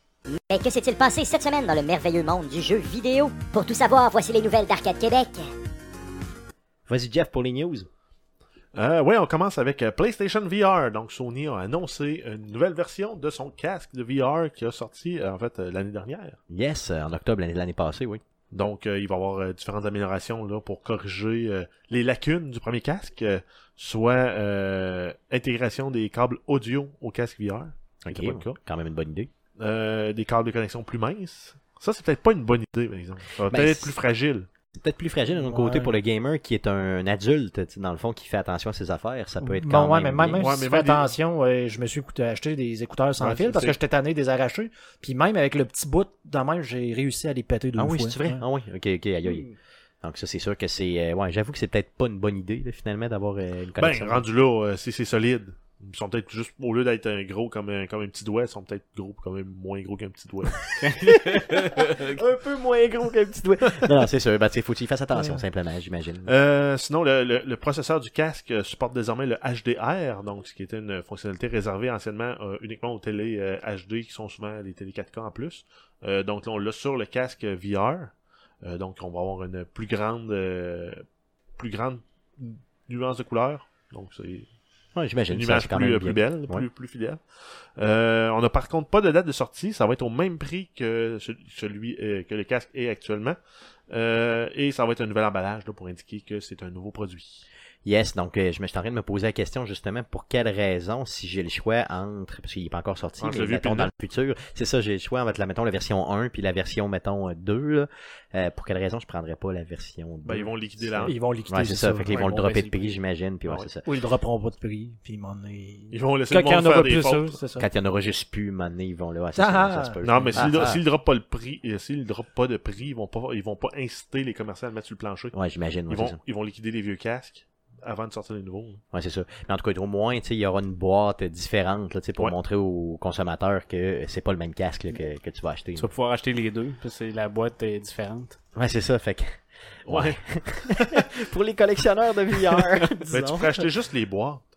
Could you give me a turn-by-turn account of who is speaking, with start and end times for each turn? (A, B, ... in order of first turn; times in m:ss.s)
0:00.4-0:05.5 A
0:06.9-0:07.9 B
0:08.7-0:16.4 C
0:16.5-0:18.2 B
0:18.5-0:28.6 C
0:28.0-0:29.3 B
0:29.6-0:34.5 C
0:33.4-0:33.9 B
0:34.7-0:40.5 B
0:35.3-0:36.0 D
0:39.4-0:48.4 D
0:40.4-0:41.1 C
0:43.2-0:43.8 C
0:47.8-0:49.5 B
0:50.0-0:54.2 B
0:53.8-1:01.0 C
1:00.8-1:02.1 E
1:01.0-1:06.3 B
1:06.2-1:18.1 C
1:18.6-1:21.0 C
1:21.6-1:24.5 C
1:25.0-1:26.7 B
1:25.3-1:27.2 C
1:27.8-1:33.4 C
1:33.9-1:37.5 C
1:37.8-1:53.8 B
1:43.2-1:43.9 C
1:50.2-1:51.2 C
1:51.0-1:52.6 D
1:52.1-1:53.0 E
1:53.8-1:57.7 D
1:55.9-1:57.4 C
1:57.6-2:00.8 B
1:59.4-2:00.7 D
2:00.0-2:05.4 C
2:05.3-2:06.2 B
2:05.9-2:08.8 C
2:08.9-2:15.9 B
2:15.8-2:18.4 E
2:18.6-2:23.7 B
2:19.9-2:21.0 C
2:23.1-2:24.5 C